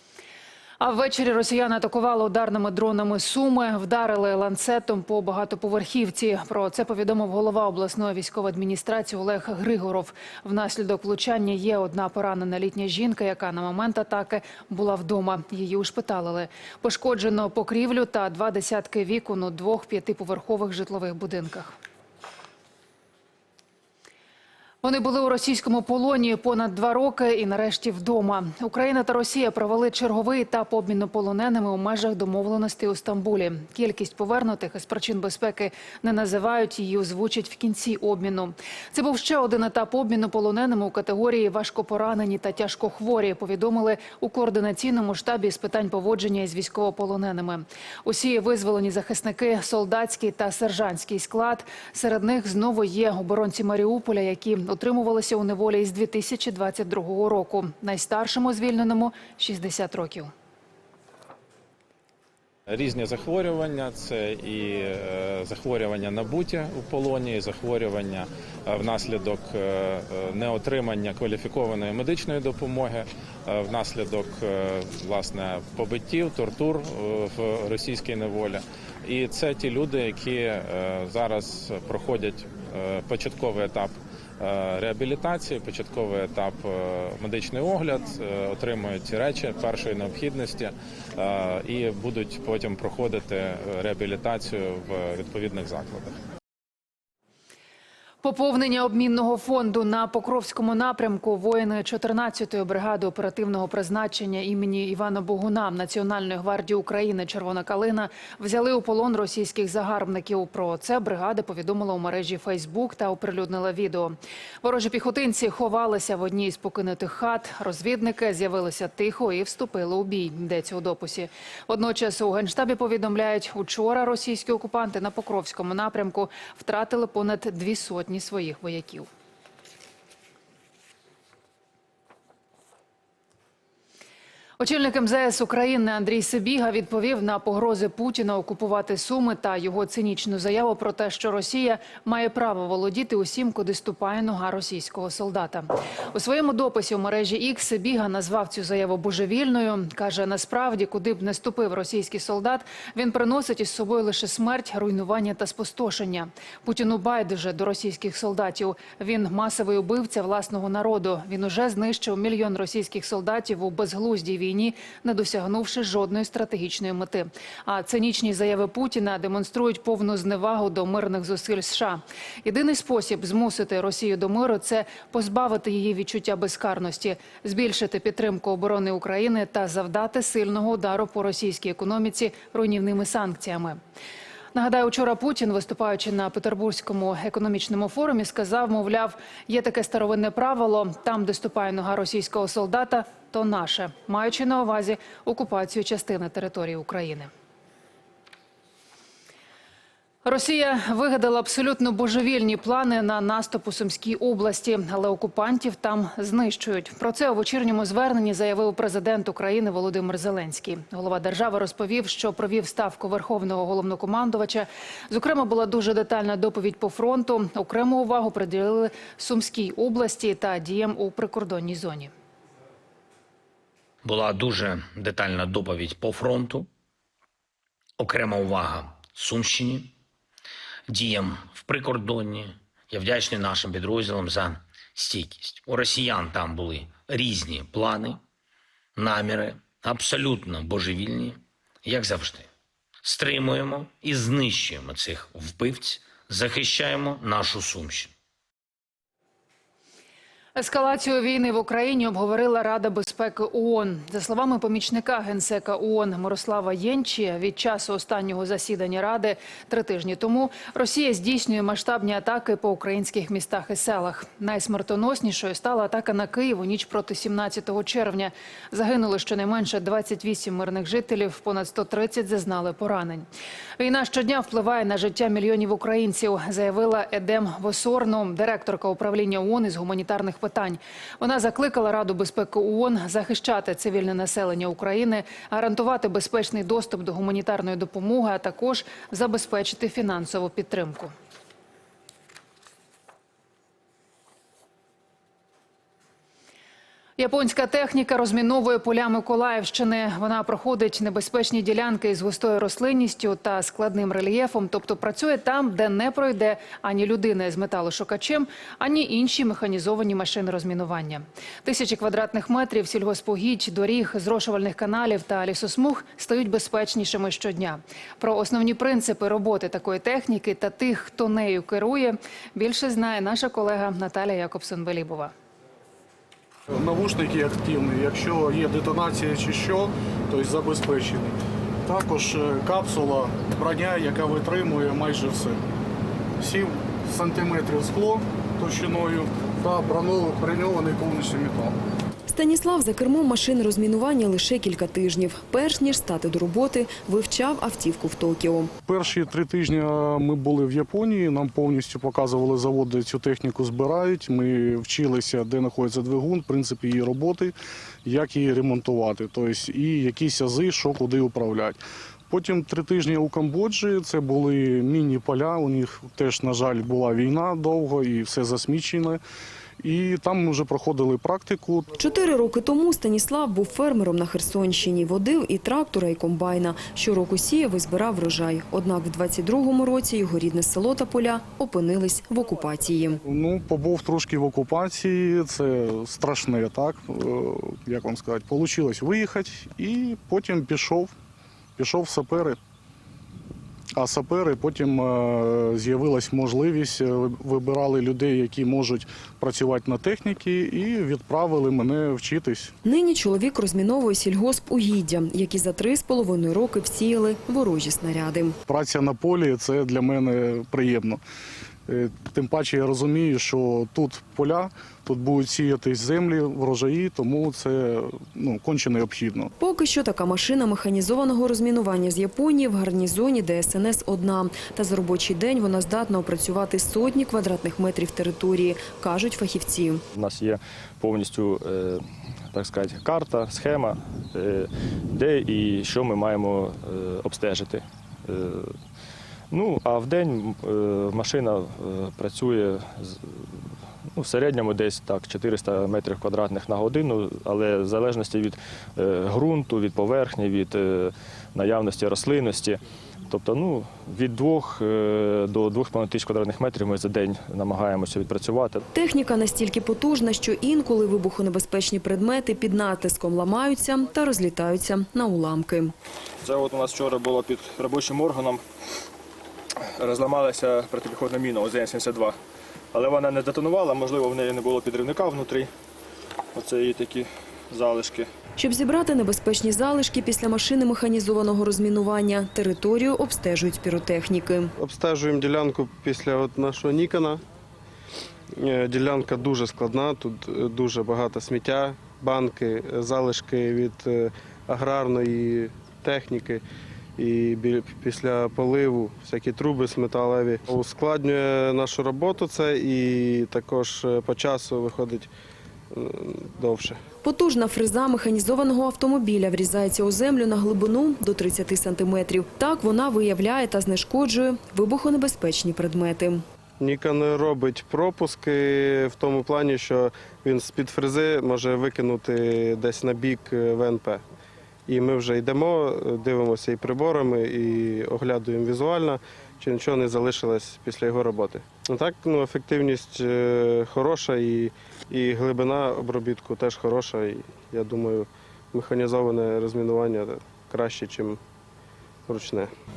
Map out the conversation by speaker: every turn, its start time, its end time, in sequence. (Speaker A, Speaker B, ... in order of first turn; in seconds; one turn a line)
Speaker A: 0.8-21.8
Speaker A: 24.8-60.3
Speaker B: 62.7-96.1
Speaker A: 98.2-129.1
Speaker A: 134.6-183.8
Speaker A: 184.5-197.3
Speaker A: 200.2-222.1
Speaker C: 224.0-226.7
Speaker C: 228.0-229.9
Speaker C: 230.9-238.2
Speaker C: 239.0-242.5
Speaker C: 243.0-248.1
Speaker A: 250.6-273.3
Speaker A: 273.8-291.1
Speaker A: 297.2-325.3
Speaker D: 326.7-335.6
Speaker D: 336.4-341.8
Speaker E: 342.3-348.7
Speaker D: 348.9-369.2
Speaker D: 369.8-371.9
Speaker E: 372.0-383.2
Speaker D: 383.3-391.1
Speaker D: 391.8-392.6
Speaker D: 393.9-402.7
Speaker E: 402.8-408.6
Speaker D: 408.7-411.2
Speaker D: 411.9-419.5
Speaker E: 419.6-430.0
Speaker F: 430.1-438.7
Speaker F: 439.5-443.6
Speaker F: 444.1-458.9
Speaker E: 458.9-465.9
Speaker F: 466.4-468.6
Speaker F: 469.8-472.4
Speaker F: 472.9-475.7
Speaker F: 476.5-478.3
Speaker E: 478.6-484.7
Speaker G: 484.8-487.4
Speaker G: 488.6-496.6
Speaker G: 497.2-505.3
Speaker G: 505.9-507.0
Speaker E: 507.2-516.4
Speaker G: 516.8-524.2
Speaker G: 524.9-541.4
Speaker G: 542.3-542.7